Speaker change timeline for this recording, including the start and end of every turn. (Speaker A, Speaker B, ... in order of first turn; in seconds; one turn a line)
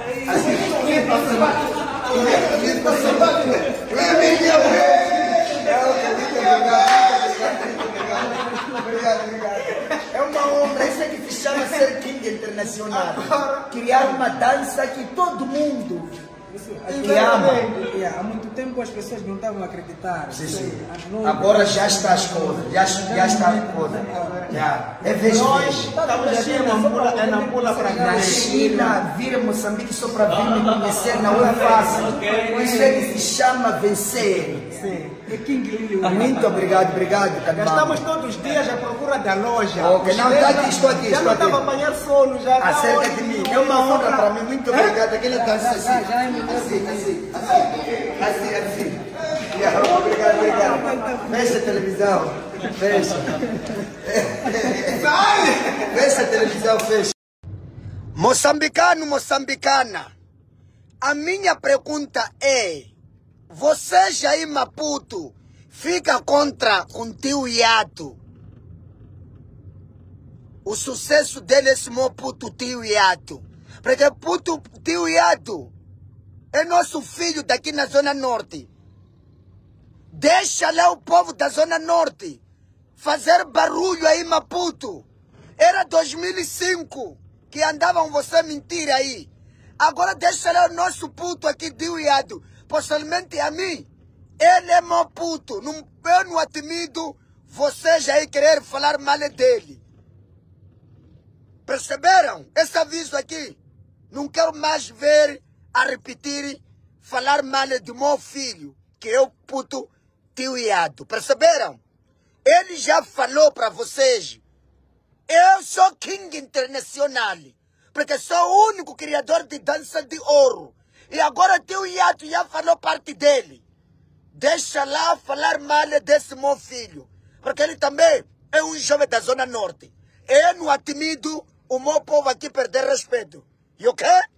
Speaker A: 0.2-16.1
Speaker B: 0.3-0.6
Speaker C: 0.4-5.3
Speaker B: 3.3-3.7
Speaker C: 6.1-8.5
Speaker B: 8.3-8.9
Speaker C: 10.0-10.9
Speaker C: 12.9-14.2
Speaker B: 16.5-24.5
Speaker C: 16.9-18.0
Speaker A: 17.1-17.7
Speaker A: 20.3-25.9
Speaker C: 20.5-20.7
Speaker C: 24.1-24.5
Speaker C: 25.2-28.5
Speaker B: 25.9-29.0
Speaker A: 28.0-34.8
Speaker B: 31.2-33.2
Speaker C: 31.3-32.1
Speaker C: 34.7-35.2
Speaker B: 34.7-36.9
Speaker A: 36.0-38.0
Speaker C: 37.5-44.3
Speaker A: 39.8-41.6
Speaker A: 42.6-57.1
Speaker B: 44.7-47.3
Speaker B: 49.7-51.7
Speaker C: 54.9-55.8
Speaker A: 58.1-60.1
Speaker A: 61.0-62.9
Speaker A: 63.5-68.2
Speaker A: 70.6-75.7
Speaker A: 76.5-78.7
Speaker A: 80.1-82.4
Speaker A: 83.0-85.0
Speaker A: 85.6-93.9
Speaker A: 94.4-99.8
Speaker A: 101.7-103.6
Speaker A: 104.1-111.8
Speaker A: 112.4-114.4
Speaker A: 115.3-123.6
Speaker A: 124.3-134.2